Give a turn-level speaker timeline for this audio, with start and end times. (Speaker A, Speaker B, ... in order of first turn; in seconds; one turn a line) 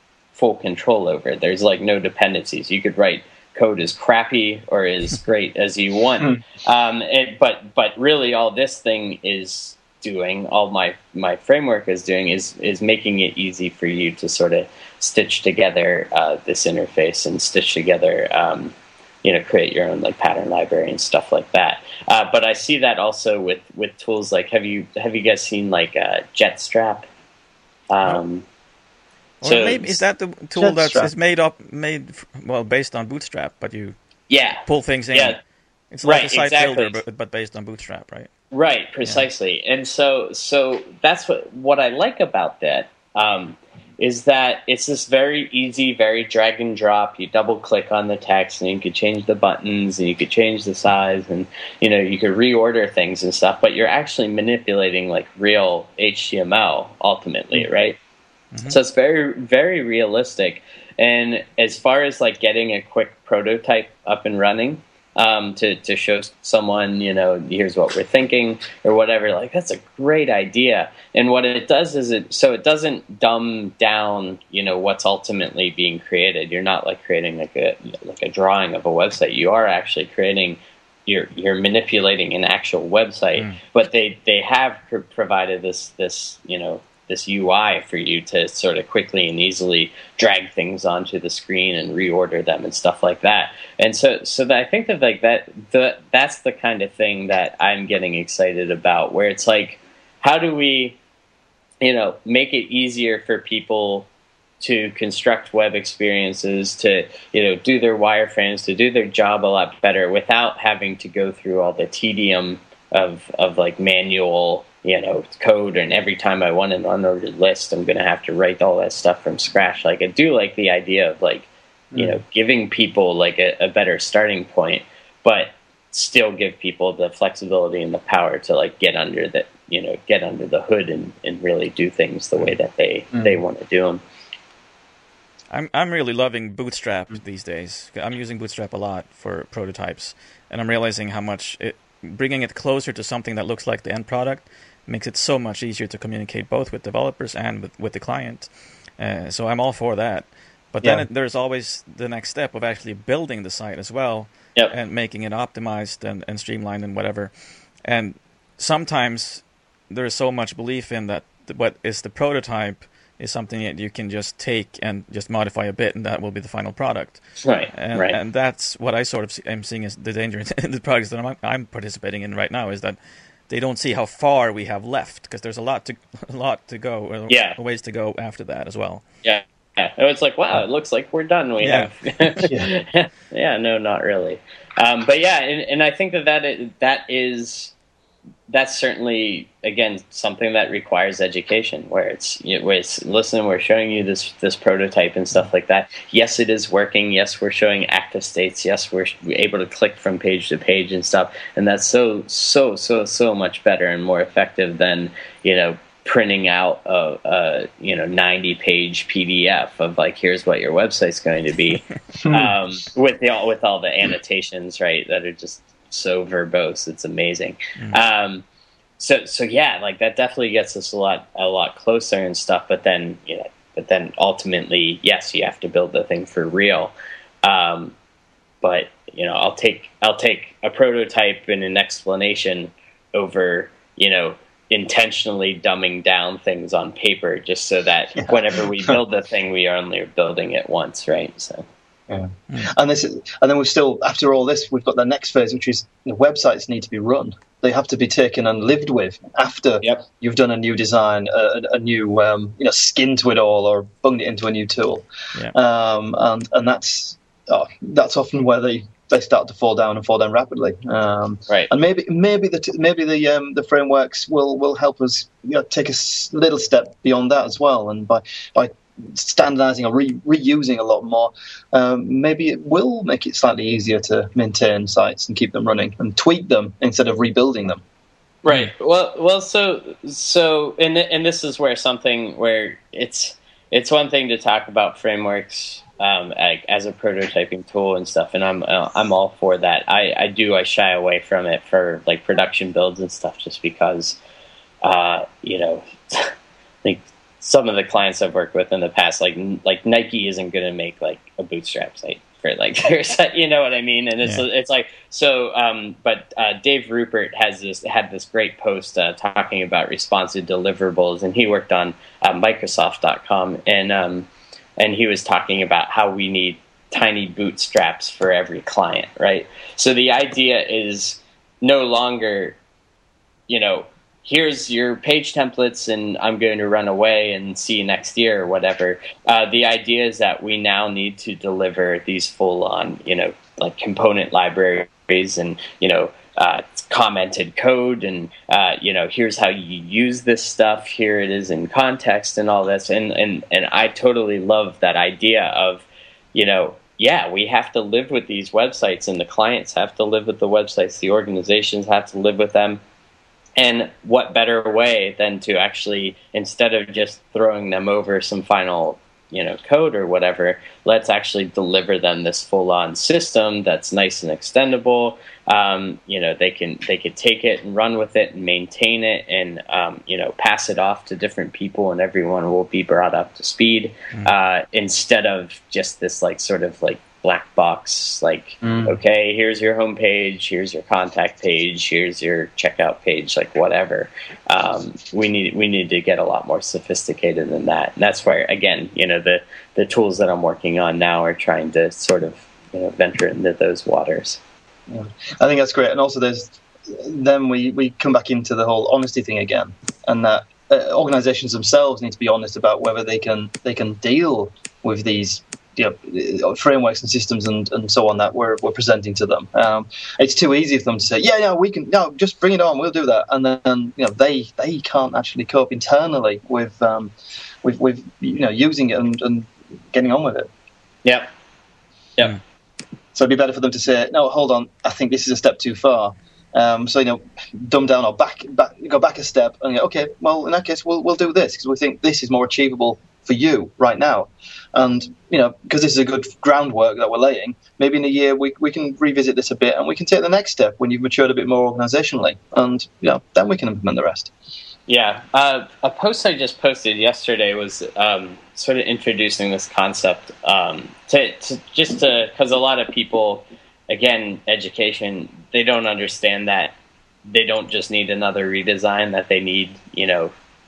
Speaker A: 0.3-27.1
Speaker A: 27.9-28.4
Speaker A: 29.4-30.0
Speaker B: 29.4-34.0
Speaker C: 30.6-31.1
Speaker A: 34.3-35.4
Speaker B: 34.6-35.4
Speaker B: 35.9-38.3
Speaker A: 36.0-37.0
Speaker A: 38.5-58.0
Speaker A: 58.6-101.0
Speaker A: 101.8-104.1
Speaker A: 104.6-134.0
Speaker C: 121.9-122.2
Speaker B: 135.5-157.3
Speaker B: 157.8-167.2
Speaker A: 167.4-168.2
Speaker B: 167.7-173.0
Speaker B: 173.5-179.0
Speaker A: 177.3-177.6
Speaker A: 179.2-187.7
Speaker B: 181.6-182.5
Speaker A: 188.5-218.4
Speaker C: 212.2-212.5
Speaker A: 219.0-227.9
Speaker A: 228.6-241.7
Speaker C: 238.2-238.9
Speaker C: 242.1-277.8
Speaker A: 278.4-294.2
Speaker A: 294.8-322.6
Speaker A: 323.5-352.8
Speaker A: 353.6-394.4
Speaker C: 378.6-378.9
Speaker C: 394.9-420.5
Speaker C: 423.1-444.3
Speaker A: 444.9-456.7
Speaker A: 457.2-460.3